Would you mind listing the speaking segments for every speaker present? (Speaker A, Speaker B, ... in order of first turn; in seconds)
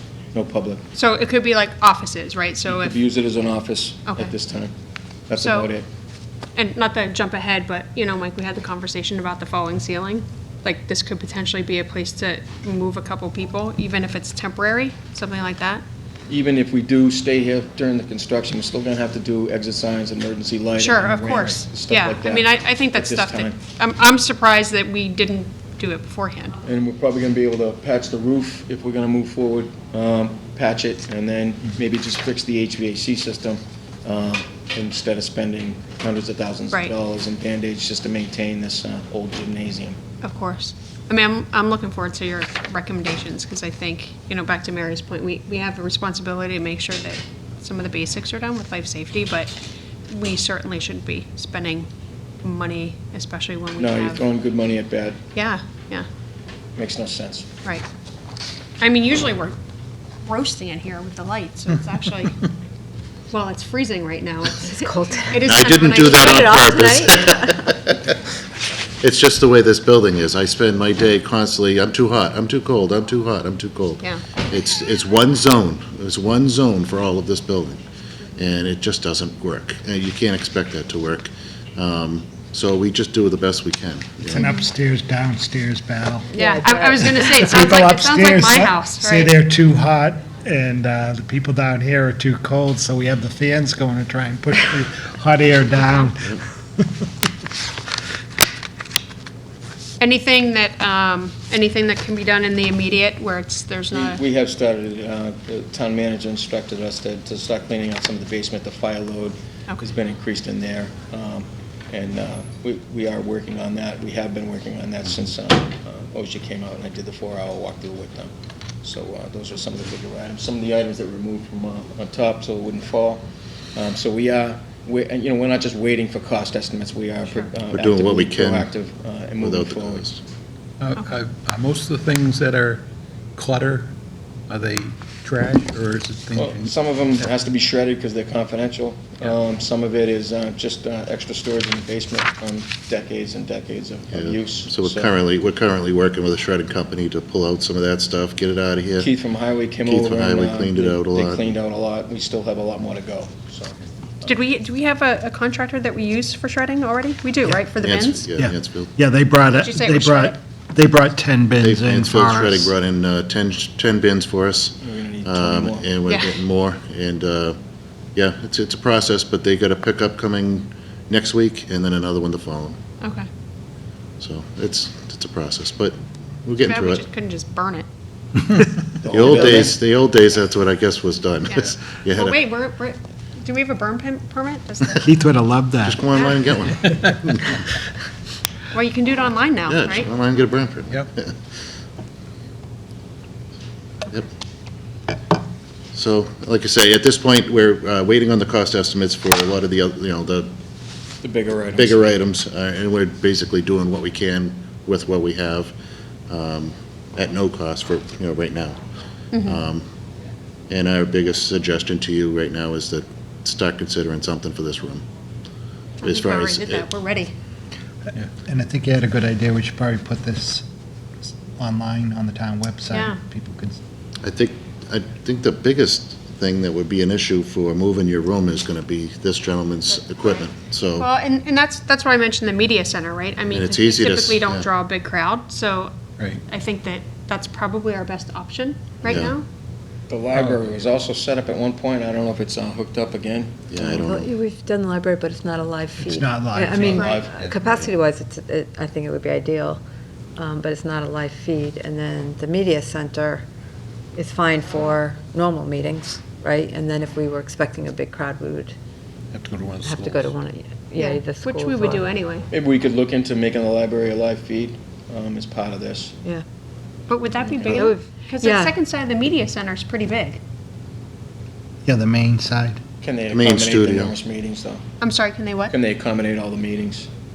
Speaker A: 0.3-0.8, 2.7-4.7, 5.3-5.9, 16.3-23.6, 26.6-40.0, 53.8-55.2, 56.8-57.5, 103.9-118.3, 118.8-123.2, 123.8-130.1, 136.3-145.1, 149.0-153.8, 164.8-165.9, 179.0-179.8, 201.2-202.0, 240.1-243.8, 246.8-247.9, 262.5-266.1, 267.6-267.9, 273.0-274.8, 275.7-277.1
Speaker B: 0.9-3.0, 5.4-5.7, 6.5-15.8, 20.8-26.6, 40.2-49.5, 50.1-51.9, 52.4-54.2, 55.4-56.1, 58.8-59.6, 60.2-62.5, 63.3-67.0, 84.4-84.7, 86.3-89.3, 100.0-104.2, 154.2-158.3, 159.5-160.4, 166.1-166.4, 173.0-173.3, 176.6-177.9, 181.5-185.2, 186.1-186.4, 188.7-190.1, 209.3-209.6, 216.0-217.3, 222.9-223.2, 231.0-239.4, 246.8-247.2, 261.0-262.5, 267.1-270.4, 275.0-275.7
Speaker C: 64.7-65.5, 66.4-67.7, 86.3-87.1, 243.8-249.8, 250.4-253.4, 254.2-258.7, 259.8-262.1, 267.6-268.8
Speaker D: 65.5-68.1, 69.0-77.8, 78.4-84.5, 127.7-128.7, 129.4-130.2, 144.1-149.1, 149.8-151.6, 157.8-158.9, 161.6-167.6, 168.2-172.8, 174.2-177.1, 179.1-182.4, 185.8-187.5, 189.7-191.3, 195.9-200.5, 201.7-205.7, 206.3-208.8, 209.4-209.8, 210.7-215.1, 216.0-216.9, 224.2-231.1, 233.5-234.7, 239.1-239.3, 243.7-244.3, 273.3-274.1
Speaker E: 84.2-86.3, 87.0-96.8, 158.3-162.7, 185.0-186.0, 218.4-220.7, 221.6-223.8, 246.0-247.2, 271.9-272.8
Speaker F: 130.8-133.9, 134.5-136.7, 259.3-260.3